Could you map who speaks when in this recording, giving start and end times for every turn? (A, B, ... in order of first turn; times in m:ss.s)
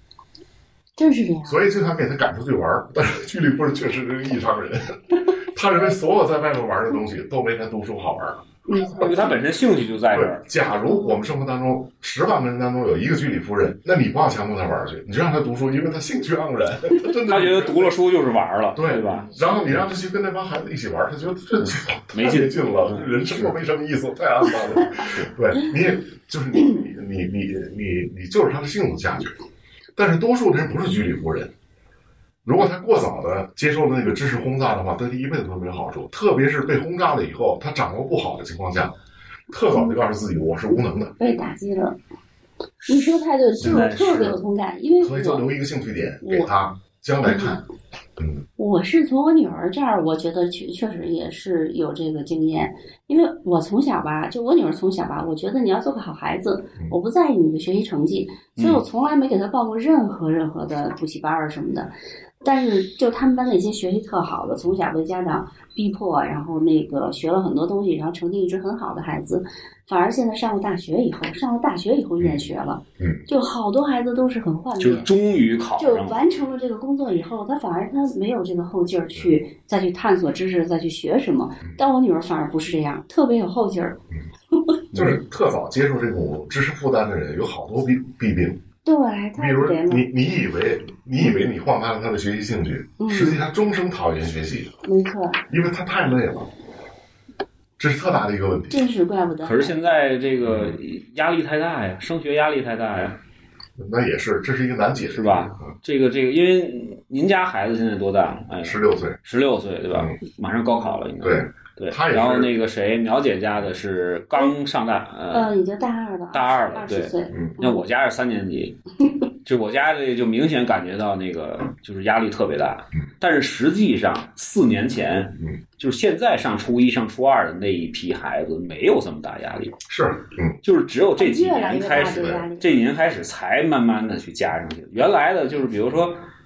0:01.0-0:01.6 A
0:01.4-0:08.4 B
0:08.7-0:09.4 A
0:09.0-0:10.4 C
0:10.1-0:18.0 B
0:10.9-0:11.1 A
0:17.2-0:19.8 C
0:18.7-0:29.3 B
0:22.1-0:23.5 C
0:30.0-0:31.5 B
0:32.4-0:38.9 B
0:39.5-0:41.1 B
0:41.2-0:42.0 A
0:42.8-0:44.4 C
0:42.9-0:45.4 A
0:45.0-0:47.6 B
0:46.2-0:46.5 A
0:47.2-0:47.6 A
0:48.2-0:48.4 B
0:48.6-1:15.1 A
0:58.6-0:58.8 C
1:13.0-1:13.2 B
1:14.8-1:16.2 C
1:15.8-1:24.0 A
1:24.9-1:25.2 C
1:24.9-1:28.6 B
1:28.8-1:30.0 A
1:29.4-1:34.7 B
1:33.0-1:33.4 A
1:34.8-1:35.4 A
1:35.5-1:36.5 B
1:37.8-1:38.8 B
1:38.7-1:39.7 A
1:39.4-1:43.2 C
1:40.4-1:40.8 B
1:43.8-1:45.7 B
1:45.1-1:55.5 C
1:48.6-1:49.2 B
1:51.2-1:52.5 B
1:55.3-1:57.8 A
1:56.3-1:58.8 C
1:57.3-1:57.6 B
1:59.4-2:09.8 C
2:09.8-2:10.6 B
2:10.6-2:16.2 C
2:11.2-2:12.8 A
2:12.2-2:12.4 B